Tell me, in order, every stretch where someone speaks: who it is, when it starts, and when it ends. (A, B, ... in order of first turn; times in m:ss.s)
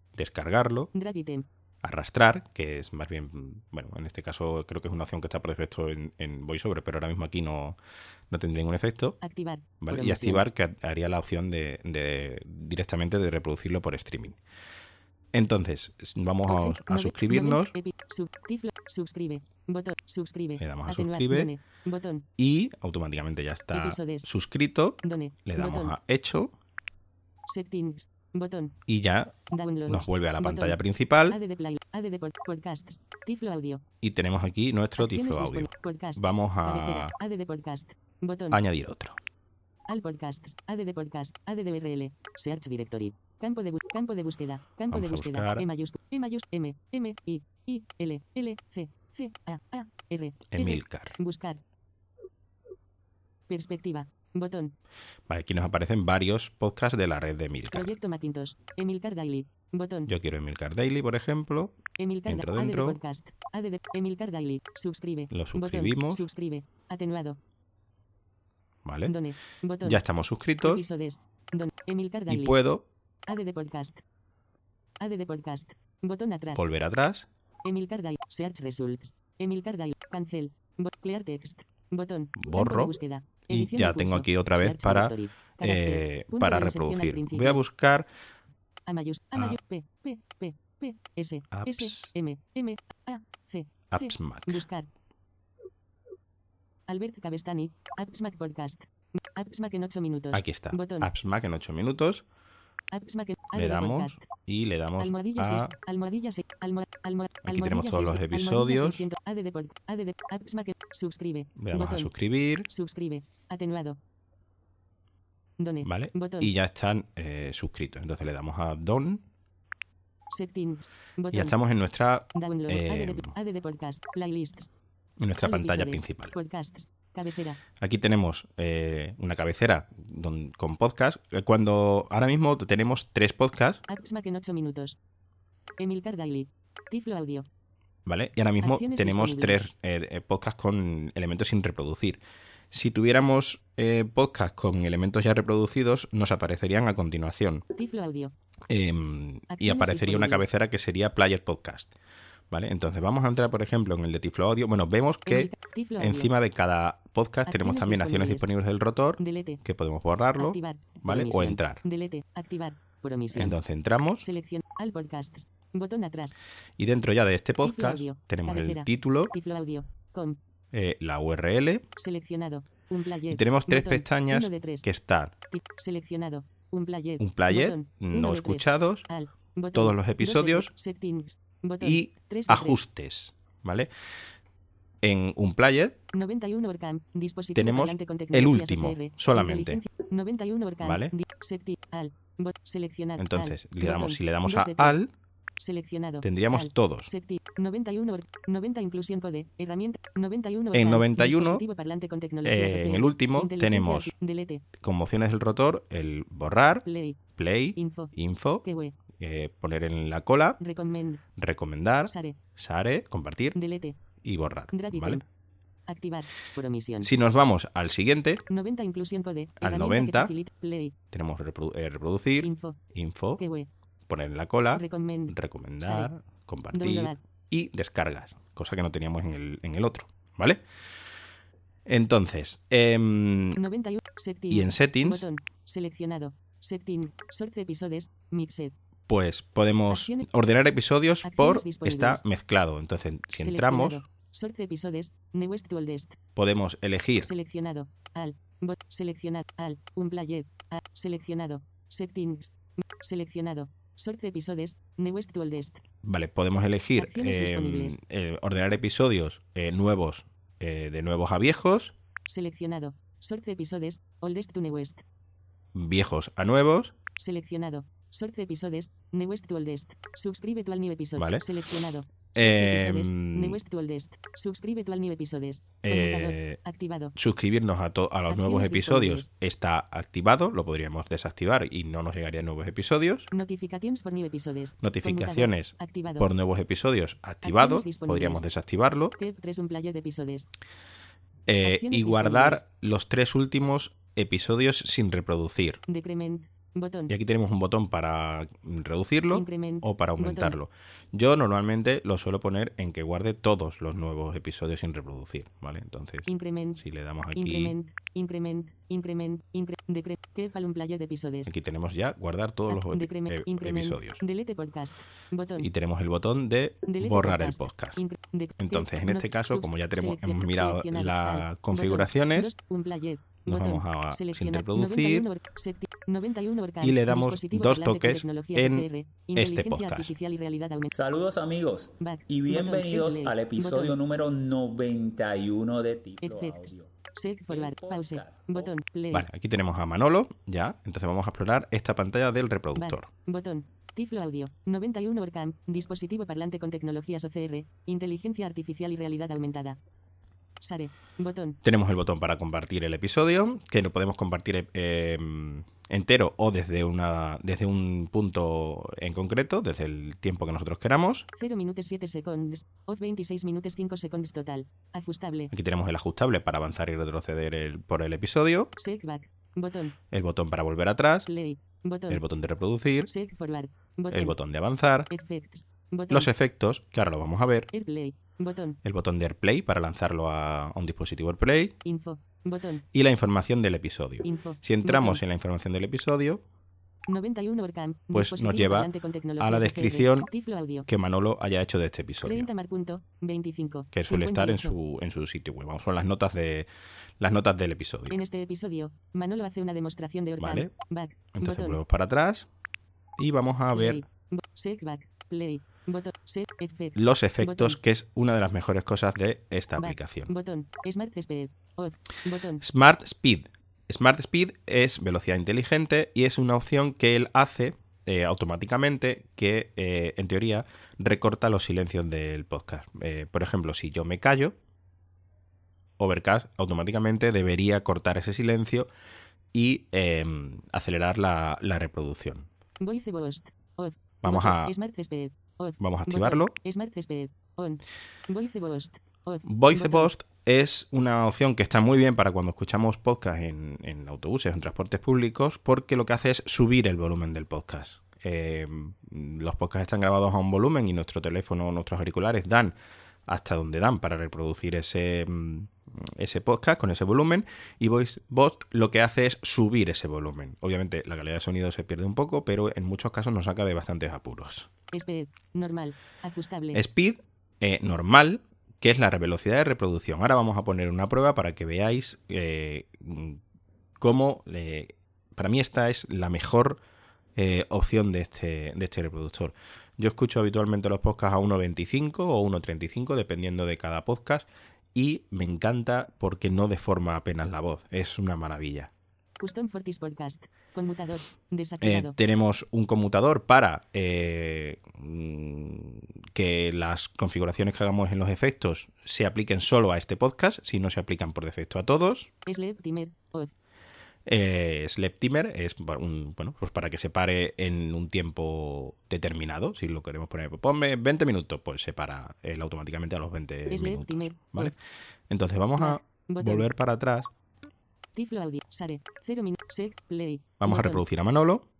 0:00.2-0:00.9 A
0:00.9-0:01.5 B
0:01.8-0:07.8 A
0:08.3-0:09.2 A
0:09.2-0:10.4 B
0:09.8-0:14.4 A
0:15.3-0:17.7 A
0:16.4-0:22.2 B
0:20.6-0:21.5 A
0:22.4-0:26.5 A
0:23.7-0:24.3 B
0:25.0-0:25.9 B
0:27.4-0:28.8 B
0:28.9-0:29.3 A
0:29.5-0:33.8 B
0:29.9-0:31.4 A
0:34.0-0:37.1 A
0:35.0-0:38.6 B
0:38.5-0:39.2 A
0:39.9-0:51.6 B
0:44.9-0:45.7 A
0:50.5-0:51.2 A
0:53.5-0:54.7 B
0:55.3-0:57.9 A
0:57.7-1:00.1 B
1:00.1-1:03.0 A
1:02.0-1:07.4 B
1:05.3-1:06.2 A
1:08.8-1:09.1 A
1:09.0-1:10.0 B
1:09.8-1:10.8 A
1:10.6-1:12.6 B
1:12.3-1:12.8 A
1:13.3-1:14.0 B
1:15.0-1:16.7 B
1:16.5-1:17.3 A
1:17.6-1:27.6 B
1:22.4-1:23.0 A
1:23.5-1:28.0 A
1:28.9-1:34.9 B
1:31.5-1:32.1 A
1:33.9-1:34.6 A
1:36.9-1:41.1 B
1:40.3-1:42.2 A
1:42.9-1:44.3 B
1:43.5-1:45.7 A
1:45.0-1:52.1 B
1:47.4-1:49.1 A
1:51.6-1:52.7 A
1:52.7-1:54.0 B
1:55.6-1:56.5 B
1:55.8-1:59.2 A
2:00.3-2:01.5 B
2:01.3-2:03.3 A
2:02.3-2:04.7 B
2:05.2-2:06.3 A
2:05.4-2:07.6 B
2:07.8-2:13.8 A
2:13.9-2:15.0 B
2:15.8-2:17.5 B
2:18.0-2:22.2 A
2:18.6-2:19.6 B
2:22.7-2:27.6 A
2:27.7-2:28.3 B
2:28.7-2:31.9 A
2:29.5-2:30.5 B
2:32.5-2:41.8 A
2:35.3-2:36.3 B
2:37.4-2:38.5 B
2:39.2-2:39.6 B
2:40.4-2:43.5 B
2:43.3-2:44.2 A
2:44.2-2:46.4 B
2:46.8-2:49.3 A
2:47.6-2:50.4 B
2:50.7-2:51.8 A
2:52.0-2:54.8 B
2:53.3-2:55.3 A
2:55.5-3:02.8 B
2:57.2-2:59.0 A
2:59.7-3:00.7 A
3:01.8-3:03.9 A
3:05.0-3:06.0 A
3:06.1-3:15.0 B
3:07.5-3:09.8 A
3:10.8-3:11.1 A
3:13.2-3:15.1 A
3:15.6-3:24.6 B
3:16.2-3:17.1 A
3:20.7-3:21.6 A
3:22.4-3:24.1 A
3:24.8-3:30.6 A
3:26.8-3:27.2 B
3:27.7-3:29.0 B
3:30.6-3:31.2 B
3:31.4-3:33.6 A
3:32.1-3:32.4 B
3:33.5-3:34.0 B
3:34.2-3:35.2 A
3:34.7-3:35.2 B
3:35.9-3:37.1 B
3:37.0-3:38.4 A
3:38.5-3:40.9 B
3:39.6-3:40.3 A
3:41.1-3:43.4 A
3:42.4-3:42.8 B
3:43.4-3:43.7 B
3:44.1-3:50.6 A
3:44.7-3:46.1 B
3:46.7-3:47.2 B
3:51.8-3:53.6 A
3:53.5-3:58.7 B
3:54.5-3:55.3 A
3:59.1-4:04.0 A
3:59.9-4:00.3 B
4:01.2-4:02.2 B
4:03.4-4:06.2 B
4:06.4-4:07.3 A
4:07.2-4:15.8 B
4:16.0-4:21.9 A
4:17.0-4:18.0 B
4:22.2-4:25.0 B
4:25.7-4:26.9 A
4:27.2-4:37.1 B
4:31.2-4:31.4 A
4:32.3-4:33.6 A
4:35.8-4:36.6 A
4:37.1-4:43.3 A
4:38.3-4:39.3 B
4:43.3-4:46.3 B
4:44.8-4:49.1 A
4:47.4-4:48.4 B
4:49.2-4:50.5 B
4:51.4-4:55.8 A
4:51.6-4:52.6 B
4:55.9-4:57.1 B
4:57.1-5:06.3 A
4:59.3-5:00.6 B
5:06.2-5:06.8 B
5:06.8-5:07.7 A
5:07.3-5:11.5 B
5:11.4-5:14.2 A
5:12.7-5:15.7 B
5:15.6-5:18.0 A
5:16.8-5:30.9 B
5:18.6-5:22.5 A
5:23.5-5:25.3 A
5:26.8-5:30.1 A
5:30.9-5:36.9 C
5:32.0-5:34.0 B
5:36.2-5:39.3 B
5:37.5-5:38.8 C
5:39.1-5:43.1 A
5:42.8-5:49.8 B
5:50.6-5:51.6 B
5:51.6-6:01.2 A
6:01.4-6:05.5 B
6:05.5-6:08.7 A
6:08.8-6:10.0 B
6:10.1-6:11.3 A
6:11.3-6:12.2 B
6:12.1-6:13.1 A
6:13.0-6:14.4 B
6:14.1-6:15.1 A
6:15.1-6:16.3 B
6:16.1-6:17.7 A
6:17.7-6:18.8 B
6:18.8-6:21.7 A
6:21.8-6:22.8 B
6:22.9-6:26.4 A
6:24.2-6:25.2 B
6:27.1-6:30.9 B
6:28.1-6:30.3 A
6:30.9-6:32.5 A
6:32.2-6:34.8 B
6:33.9-6:36.7 A
6:37.2-6:38.2 A
6:38.1-6:41.8 B
6:40.4-6:40.7 A
6:41.3-6:42.5 A
6:43.2-6:44.0 A
6:43.7-6:47.8 B
6:46.9-6:50.3 A
6:49.8-6:52.6 B
6:52.6-7:04.6 A
7:06.0-7:08.9 A
7:09.5-7:12.5 A
7:12.8-7:20.1 B
7:14.2-7:14.7 A
7:15.8-7:16.6 A
7:19.4-7:32.7 A
7:33.3-7:44.7 A
7:44.9-7:46.8 B
7:46.7-7:53.4 A
7:54.0-7:56.8 A
7:57.4-8:08.9 A
8:09.4-8:12.1 B
8:11.8-8:22.3 A
8:22.4-8:23.5 B
8:24.2-8:34.8 A
8:33.7-8:34.7 B
8:35.3-8:37.3 A
8:35.8-8:36.6 B
8:38.1-8:41.0 B
8:40.6-8:41.6 A